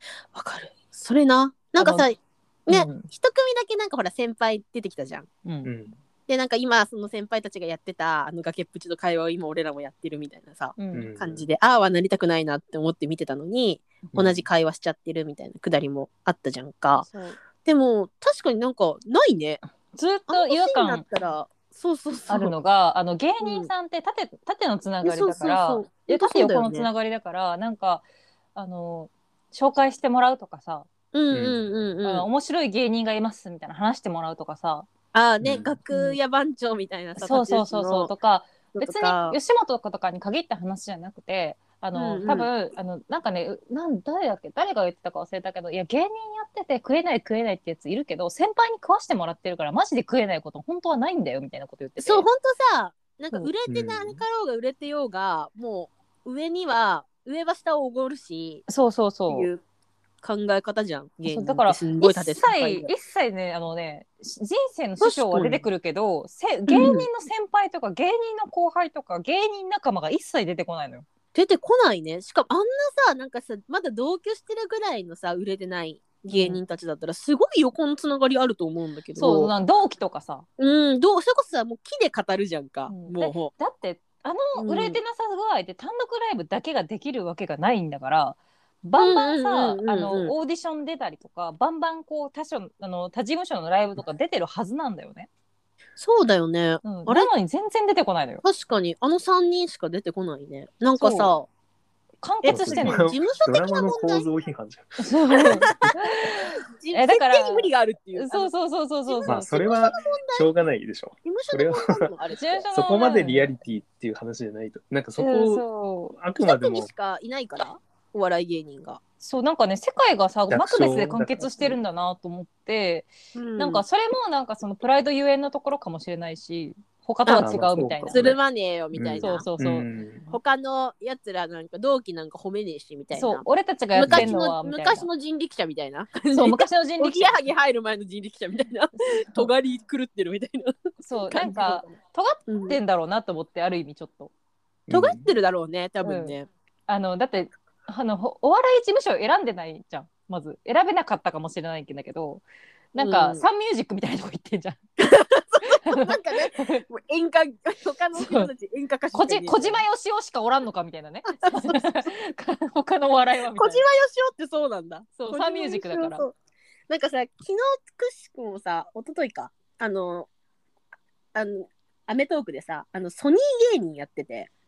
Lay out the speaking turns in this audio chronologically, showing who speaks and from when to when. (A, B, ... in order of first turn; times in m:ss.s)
0:00.3-0:05.3 A
0:01.8-0:02.1 B
0:02.7-0:03.1 B
0:05.6-0:06.0 C
0:06.3-0:19.6 A
0:10.8-0:11.1 B
0:10.9-0:11.5 C
0:14.1-0:14.4 C
0:17.0-0:17.4 B
0:19.9-0:21.0 B
0:20.3-0:22.5 A
0:22.3-0:28.0 B
0:23.4-0:23.7 A
0:25.0-0:26.9 A
0:28.6-0:30.9 B
0:31.1-0:32.3 A
0:31.3-0:31.6 C
0:32.0-0:34.9 B
0:35.1-0:38.1 A
0:35.4-0:35.8 C
0:35.9-0:36.2 B
0:37.2-0:52.2 B
0:38.7-0:39.4 A
0:42.0-0:42.5 A
0:52.0-0:58.6 A
0:53.7-0:54.2 C
0:58.7-0:59.5 B
0:59.3-0:59.6 A
1:00.2-1:02.9 A
1:01.3-1:11.1 B
1:05.0-1:05.6 A
1:06.7-1:07.1 A
1:11.3-1:19.5 A
1:16.3-1:16.6 B
1:19.2-1:20.5 B
1:20.6-1:23.5 A
1:22.9-1:35.3 B
1:24.6-1:25.0 A
1:29.0-1:30.3 A
1:36.0-1:37.3 A
1:36.8-1:38.4 B
1:38.4-1:41.5 A
1:41.0-1:41.3 B
1:42.2-1:43.1 B
1:42.4-1:44.3 A
1:42.5-1:45.9 C
1:45.0-1:49.4 B
1:45.4-1:48.5 A
1:49.1-1:50.5 A
1:49.3-1:52.1 C
1:51.2-1:52.7 A
1:52.4-1:53.5 B
1:52.7-1:55.6 C
1:55.2-1:56.2 B
1:56.2-1:56.9 C
1:56.4-1:59.0 A
1:59.2-2:08.4 B
2:00.5-2:01.8 C
2:03.4-2:03.8 A
2:07.2-2:07.6 A
2:07.4-2:08.4 C
2:08.1-2:09.5 A
2:08.9-2:10.3 C
2:09.2-2:09.9 B
2:10.3-2:22.0 A
2:13.1-2:15.1 B
2:14.0-2:14.3 C
2:16.3-2:17.5 B
2:21.0-2:24.3 B
2:22.5-2:22.8 A
2:24.9-2:25.3 C
2:24.9-2:26.5 A
2:26.0-2:26.4 B
2:26.9-2:34.8 B
2:33.0-2:33.4 A
2:35.0-2:39.8 A
2:35.9-2:36.8 B
2:38.2-2:38.5 B
2:39.1-2:43.8 B
2:41.3-2:42.1 A
2:43.6-2:46.4 A
2:45.2-2:46.2 B
2:46.9-2:50.3 A
2:51.3-2:54.5 A